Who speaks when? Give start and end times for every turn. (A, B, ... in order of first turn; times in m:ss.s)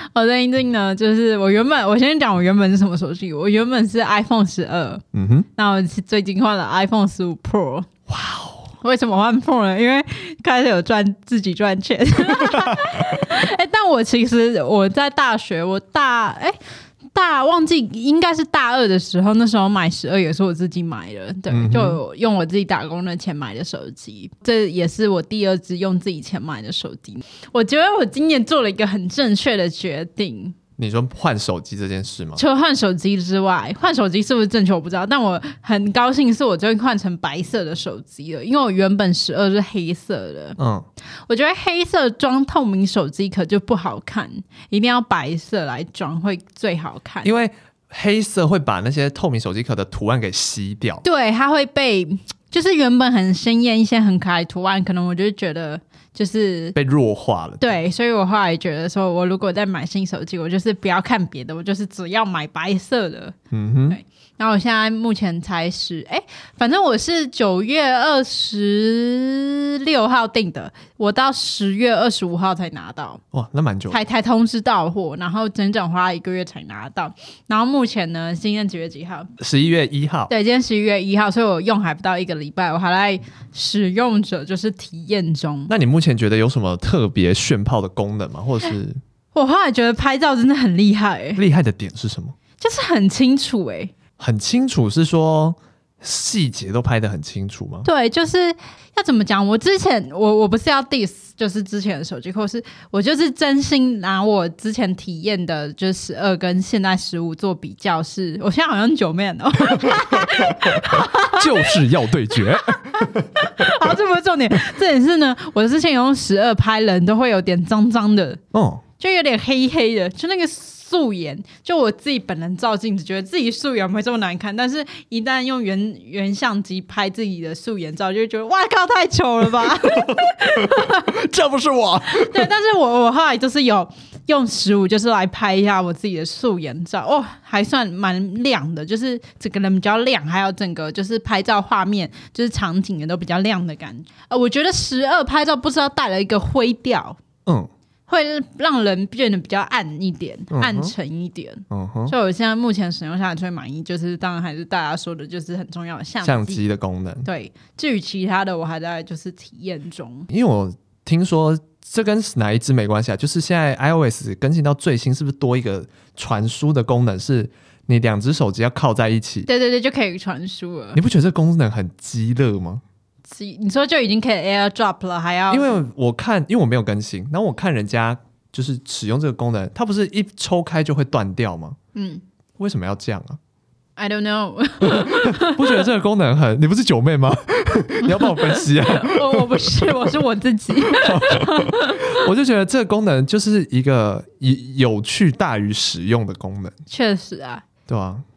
0:00.1-0:05.0 A
0:05.1-0:05.5 B
0:05.6-0:07.9 A
0:08.1-0:08.7 B
0:08.8-0:16.6 A
0:17.1-0:30.6 A
0:21.5-0:22.0 B
0:30.8-0:32.4 B
0:32.4-0:40.6 A
0:40.6-0:40.9 B
0:41.3-0:47.3 A
0:47.2-0:51.0 B
0:51.0-0:56.8 A
0:56.8-0:57.8 B
0:57.6-1:03.4 A
1:03.5-1:04.0 B
1:03.9-1:13.2 A
1:13.3-1:14.0 B
1:13.9-1:19.3 A
1:19.4-1:20.3 B
1:20.3-1:25.7 A
1:25.7-1:29.0 B
1:29.3-1:31.4 A
1:31.4-1:32.4 B
1:32.6-1:33.9 A
1:34.2-1:37.9 B
1:37.8-1:51.8 A
1:49.7-1:53.7 B
1:52.9-1:58.4 A
1:58.5-1:58.8 B
1:59.0-2:11.1 A
2:09.9-2:12.5 B
2:12.1-2:27.2 A
2:28.1-2:36.6 A
2:30.5-2:30.9 B
2:31.7-2:32.2 B
2:36.2-2:37.3 B
2:37.2-2:40.3 A
2:40.3-2:49.5 B
2:49.5-2:51.0 A
2:51.0-2:52.8 B
2:53.3-2:55.8 A
2:55.5-3:01.8 B
3:02.0-3:02.2 A
3:02.6-3:03.4 B
3:04.0-3:05.9 A
3:04.8-3:09.9 B
3:08.0-3:12.2 A
3:10.9-3:16.7 B
3:16.9-3:17.6 A
3:17.9-3:18.2 B